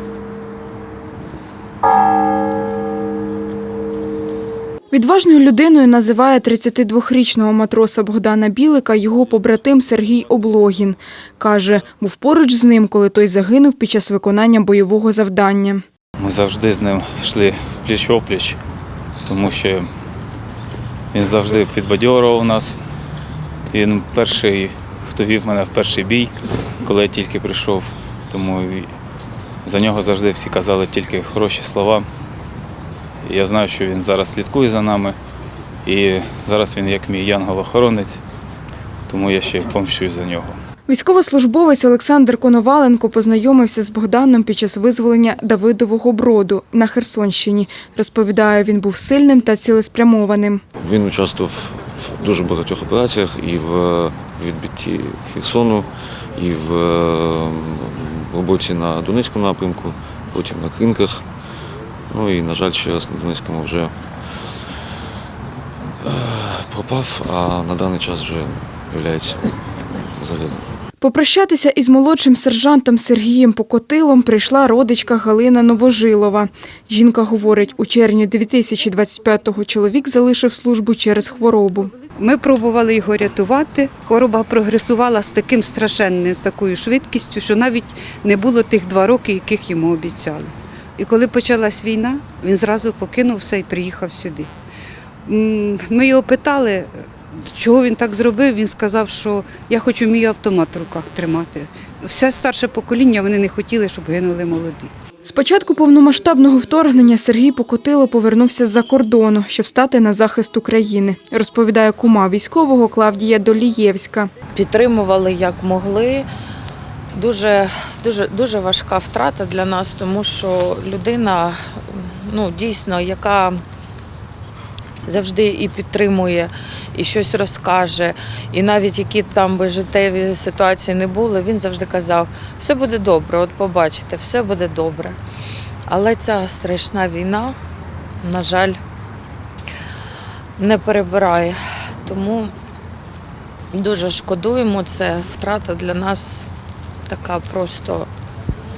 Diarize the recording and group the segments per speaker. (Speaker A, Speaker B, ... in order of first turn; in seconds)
Speaker A: 4.9-15.8, 40.9-50.6, 71.0-81.9, 105.2-114.3
Speaker B: 16.2-18.6, 19.2-19.9, 21.1-22.8, 23.7-26.3, 26.8-28.9, 29.6-32.0, 33.2-35.1, 35.8-38.2, 39.1-40.6
Speaker C: 50.8-61.3, 62.1-64.8, 66.0-70.7
Speaker D: 82.1-94.5, 95.2-104.9
Speaker E: 114.5-116.2, 117.1-123.6, 125.0-135.2, 135.9-137.6, 138.2-138.8, 140.6-142.5, 143.7-146.4, 147.1-148.1